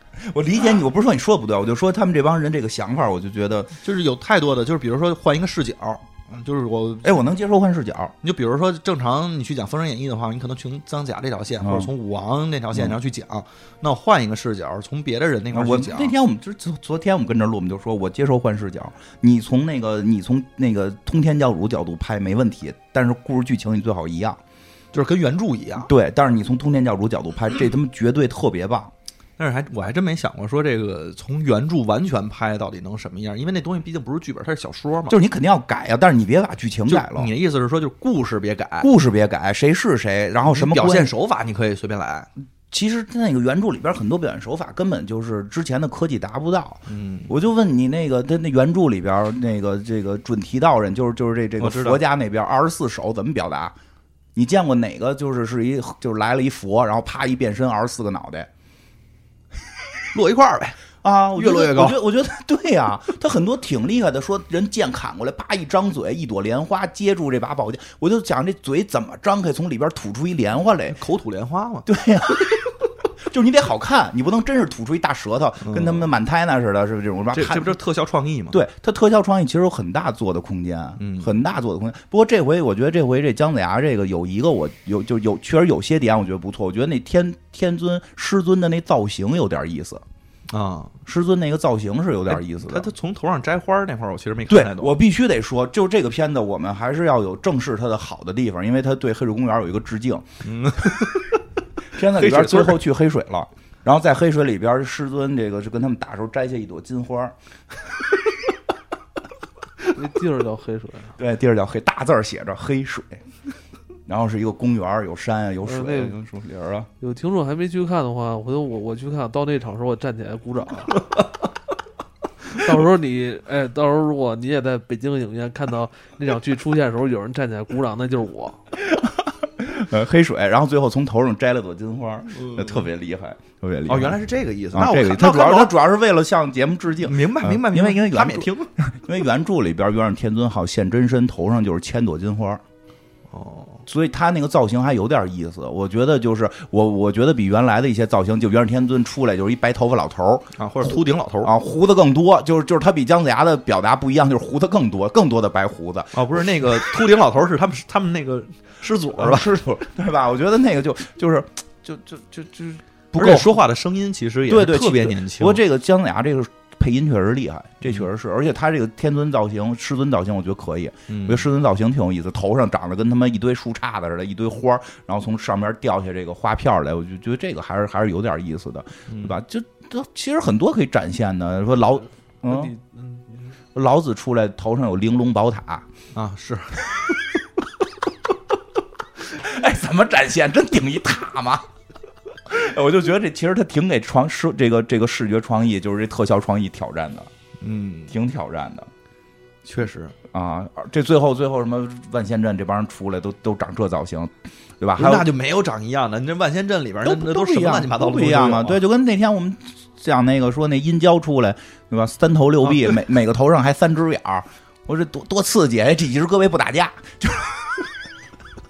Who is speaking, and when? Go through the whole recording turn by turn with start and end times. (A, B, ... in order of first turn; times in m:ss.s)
0:00.2-0:03.7 A
0:03.8-0:07.2 B
0:07.0-0:08.1 A
0:08.2-0:16.1 B
0:11.6-0:11.9 A
0:15.5-0:24.4 A
0:24.9-0:25.9 B
0:25.8-0:28.9 A
0:29.4-0:35.2 B
0:35.1-0:37.3 A
0:36.9-0:38.9 B
0:38.8-0:41.1 A
0:40.4-0:42.3 B
0:42.7-0:53.7 A
0:46.9-0:47.3 B
0:51.6-0:52.0 B
0:54.3-0:58.5 A
1:00.1-1:00.8 B
1:01.0-1:11.0 A
1:01.4-1:02.0 B
1:10.9-1:11.9 B
1:11.8-1:17.8 A
1:15.6-1:16.1 B
1:17.3-1:18.6 B
1:18.5-1:30.0 A
1:21.0-1:21.4 B
1:30.5-1:31.0 B
1:31.0-1:32.9 A
1:32.3-1:35.0 B
1:34.5-1:40.2 A
1:40.4-1:41.4 B
1:41.9-1:48.5 A
1:42.0-1:42.8 B
1:49.9-1:51.2 C
1:51.2-1:53.2 A
1:54.1-1:56.9 A
1:55.6-1:56.2 C
1:57.0-2:01.0 C
2:02.5-2:08.6 C
2:08.8-2:14.2 A
2:12.4-2:12.8 B
2:13.9-2:15.7 B
2:14.7-2:22.6 A
2:17.0-2:18.7 B
2:23.3-2:23.8 B
2:23.9-2:37.0 A
2:30.6-2:31.5 B
2:36.1-2:39.6 B
2:39.2-2:43.5 A
2:43.1-2:45.6 B
2:44.5-3:02.7 A
2:51.1-2:51.5 B
2:59.1-2:59.4 B
3:02.4-3:03.5 C
3:03.7-3:05.9 A
3:06.1-3:07.0 B
3:09.2-3:11.6 A
3:12.4-3:17.3 A
3:17.6-3:18.1 B
3:18.1-3:18.9 A
3:19.6-3:20.1 B
3:20.3-3:25.3 A
3:25.0-3:28.8 B
3:27.0-3:38.0 A
3:32.6-3:33.0 B